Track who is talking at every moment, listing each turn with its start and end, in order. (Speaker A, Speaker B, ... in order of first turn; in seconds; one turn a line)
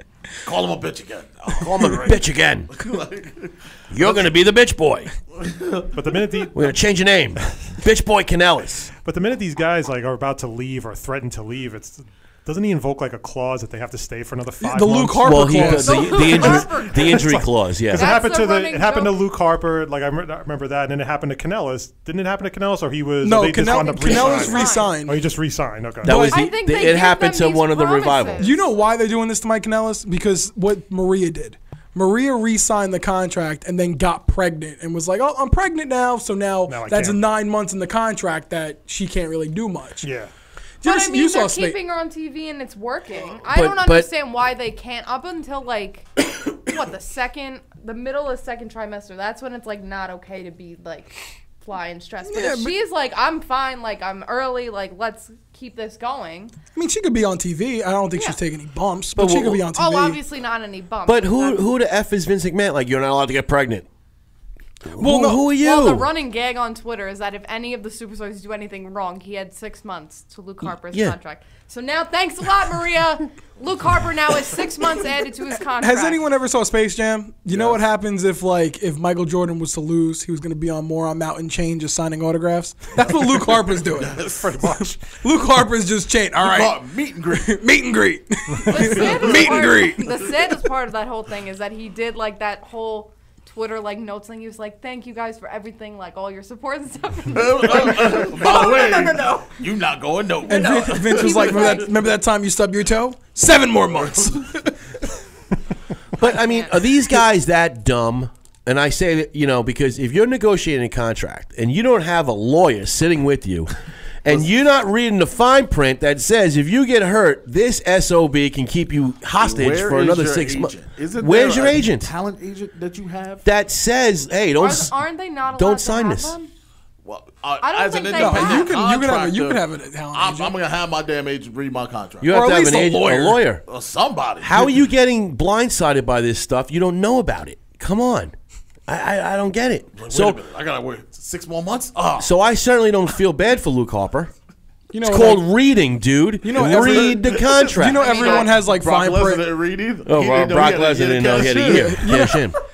Speaker A: 0.4-2.2
Speaker B: 1.6-2.7
Speaker A: 2.7-4.2
Speaker B: 3.9-5.1
Speaker A: 5.3-5.9
Speaker C: 5.9-6.7
Speaker B: 6.5-8.9
Speaker C: 9.0-15.9
Speaker D: 14.6-16.6
Speaker B: 15.2-18.2
Speaker E: 15.8-17.4
Speaker C: 17.9-26.2
Speaker E: 17.9-19.2
Speaker D: 23.2-25.2
Speaker E: 23.7-24.9
Speaker B: 26.0-28.5
Speaker D: 26.0-26.5
Speaker E: 26.2-28.6
Speaker D: 28.4-40.1
Speaker C: 36.7-37.2
Speaker C: 40.0-40.3
Speaker D: 40.8-41.8
Speaker E: 40.8-56.5
Speaker B: 43.5-44.1
Speaker D: 52.3-52.8
Speaker D: 56.7-60.2
Speaker E: 58.1-58.4
Speaker B: 59.1-59.6
Speaker E: 59.7-61.7
Speaker B: 61.0-63.9
Speaker B: 64.8-66.1
Speaker D: 65.0-65.4
Speaker E: 65.5-76.2
Speaker B: 70.6-71.2
Speaker D: 75.8-84.2
Speaker A: 77.5-77.8
Speaker A: 83.0-84.6
Speaker C: 84.3-85.0
Speaker D: 85.1-90.1
Speaker A: 86.4-87.6
Speaker E: 88.7-99.5
Speaker A: 88.8-89.8
Speaker A: 97.3-101.9
Speaker E: 100.5-101.9
Speaker D: 100.5-105.1
Speaker B: 106.2-113.7
Speaker E: 106.2-106.9
Speaker B: 114.2-122.1
Speaker A: 119.4-123.4
Speaker B: 123.4-124.9
Speaker E: 124.6-126.5
Speaker B: 125.5-126.4
Speaker A: 127.0-132.4
Speaker E: 127.6-128.7
Speaker D: 128.1-130.6
Speaker B: 132.2-133.6
Speaker D: 132.3-133.4
Speaker A: 133.6-134.7
Speaker B: 134.4-138.3
Speaker B: 138.9-140.4
Speaker A: 139.9-142.3
Speaker B: 142.2-144.3
Speaker D: 144.9-145.5
Speaker B: 145.0-148.1
Speaker D: 146.4-149.5
Speaker A: 146.6-152.1
Speaker E: 147.9-148.6
Speaker B: 150.1-152.6
Speaker D: 151.2-152.5